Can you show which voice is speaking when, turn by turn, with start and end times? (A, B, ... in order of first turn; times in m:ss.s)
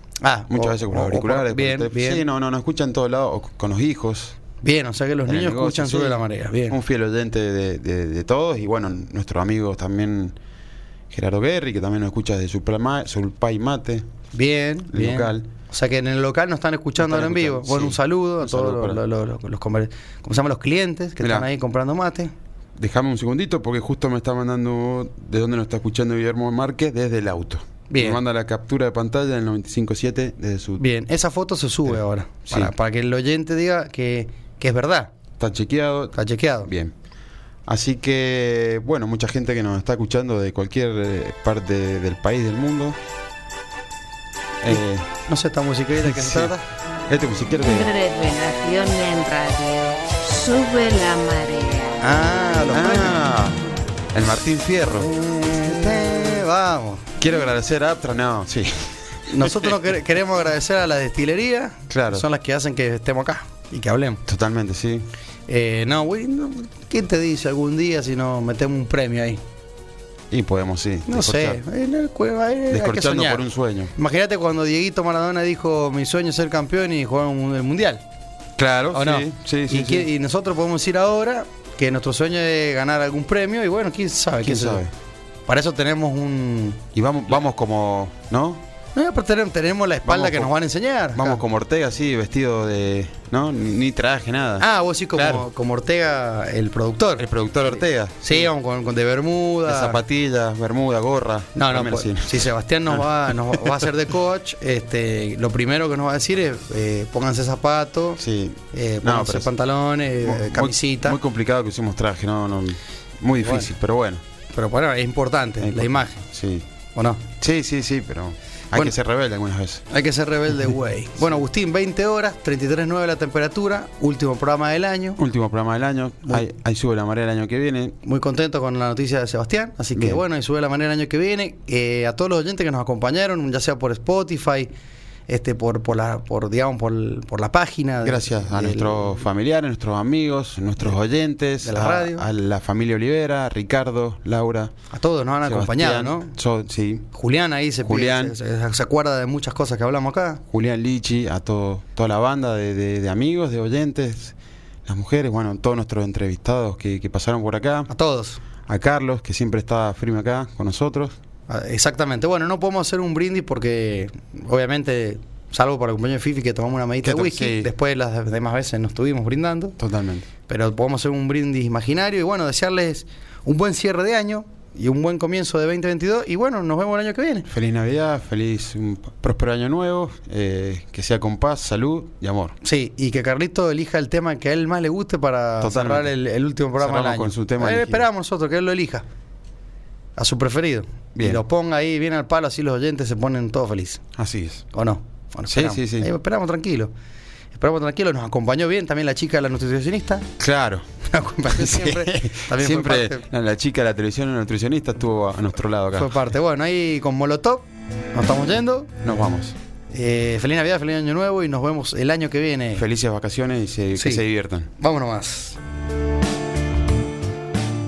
0:00.2-0:02.3 A
0:00.5-0:04.4 B
0:04.6-0:06.8 A
0:05.3-0:10.4 B
0:11.1-0:14.1 B
0:14.3-0:22.3 A
0:14.9-0:15.5 B
0:17.0-0:19.0 B
0:21.2-0:21.5 B
0:22.8-0:30.8 B
0:27.9-0:28.2 A
0:30.8-0:35.1 A
0:32.5-0:32.7 B
0:35.4-0:36.9 B
0:36.2-0:36.7 A
0:37.7-0:43.0 B
0:44.6-0:45.1 B
0:44.7-0:46.6 A
0:46.0-0:46.6 B
0:47.1-0:47.9 B
0:47.6-0:52.2 C
0:52.0-0:53.2 A
0:52.7-0:53.6 B
0:54.1-0:55.1 B
0:55.0-0:57.2 A
0:57.2-0:59.8 B
0:59.3-1:04.2 A
1:01.9-1:02.2 B
1:04.3-1:05.1 B
1:05.5-1:09.4 A
1:10.3-1:11.6 B
1:11.1-1:18.0 A
1:12.7-1:13.9 B
1:18.6-1:20.1 B
1:18.9-1:24.8 A
1:24.4-1:24.9 B
1:25.5-1:26.8 A
1:26.9-1:28.6 B
1:29.0-1:31.4 A
1:30.0-1:30.5 B
1:31.1-1:35.5 B
1:34.6-1:37.3 A
1:37.2-1:38.5 B
1:38.2-1:40.0 A
1:39.7-1:43.9 B
1:41.6-1:48.2 A
1:48.2-1:49.5 B
1:48.7-1:51.2 A
1:50.2-1:54.2 B
1:53.4-1:53.7 A
1:54.5-1:56.2 A
1:55.6-1:56.7 B
1:57.0-1:57.3 A
1:57.3-1:59.8 B
1:59.9-2:05.2 A
2:05.2-2:08.0 B
2:08.0-2:14.7 A
2:10.0-2:10.2 B
2:15.3-2:19.2 A
2:18.0-2:24.7 B
2:21.6-2:22.3 A
2:24.9-2:26.3 A
2:25.4-2:27.1 B
2:27.1-2:30.4 A
2:27.8-2:28.4 B
2:30.5-2:34.4 B
2:34.9-2:37.9 B
2:37.9-2:38.4 A
2:38.7-2:41.2 B
2:41.5-2:49.8 A
2:47.0-2:47.7 B
2:49.8-2:50.3 B
2:50.5-2:57.5 A
2:57.5-3:02.6 B
3:02.6-3:09.0 A
3:05.6-3:06.1 B
3:06.8-3:08.1 B
3:10.2-3:14.0 A
3:11.2-3:11.4 B
3:14.2-3:14.7 B
3:14.7-3:16.9 A
3:15.5-3:16.1 B
3:17.5-3:20.3 A
3:20.4-3:20.8 B
3:21.0-3:23.2 A
3:21.5-3:26.3 B
3:26.0-3:28.9 A
3:29.0-3:29.6 B
3:29.9-3:32.8 A
3:32.8-3:34.7 B
3:34.0-3:34.2 A
3:34.8-3:35.6 A